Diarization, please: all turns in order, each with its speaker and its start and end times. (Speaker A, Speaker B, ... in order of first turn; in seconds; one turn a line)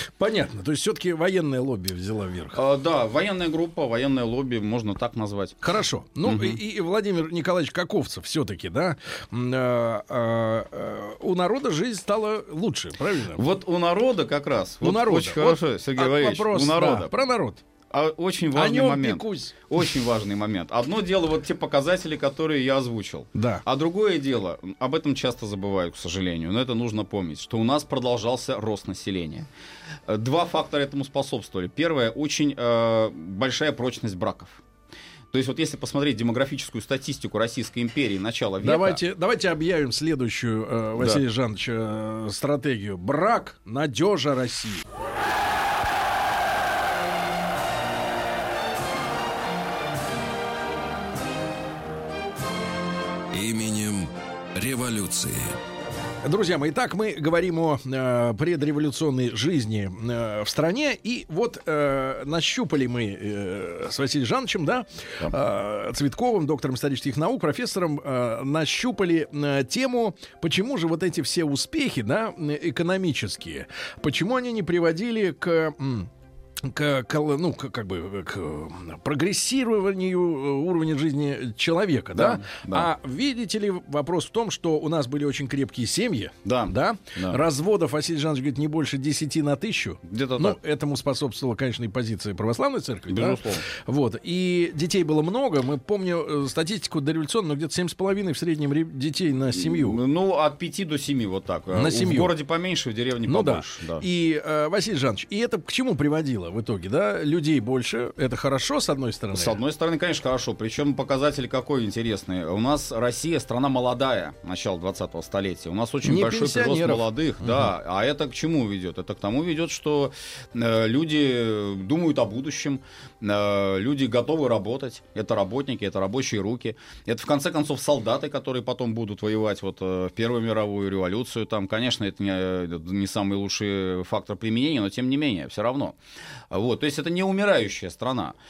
Speaker A: 0.2-2.6
Speaker B: 2.5-5.6
Speaker A: 5.6-13.4
Speaker B: 6.2-6.6
Speaker B: 13.4-17.2
Speaker A: 14.8-17.6
Speaker B: 17.9-29.5
Speaker A: 18.5-19.6
Speaker A: 23.4-23.6
Speaker B: 30.1-34.6
Speaker B: 35.3-39.0
Speaker A: 38.6-44.8
Speaker C: 53.3-55.5
Speaker A: 56.2-76.1
Speaker A: 76.6-100.0
Speaker B: 82.1-82.9
Speaker B: 86.4-87.4
Speaker B: 90.0-90.6
Speaker B: 93.1-93.6
Speaker B: 99.5-104.0
Speaker A: 101.7-102.3
Speaker A: 103.3-109.5
Speaker B: 109.3-135.9
Speaker A: 116.0-117.7
Speaker B: 136.5-138.4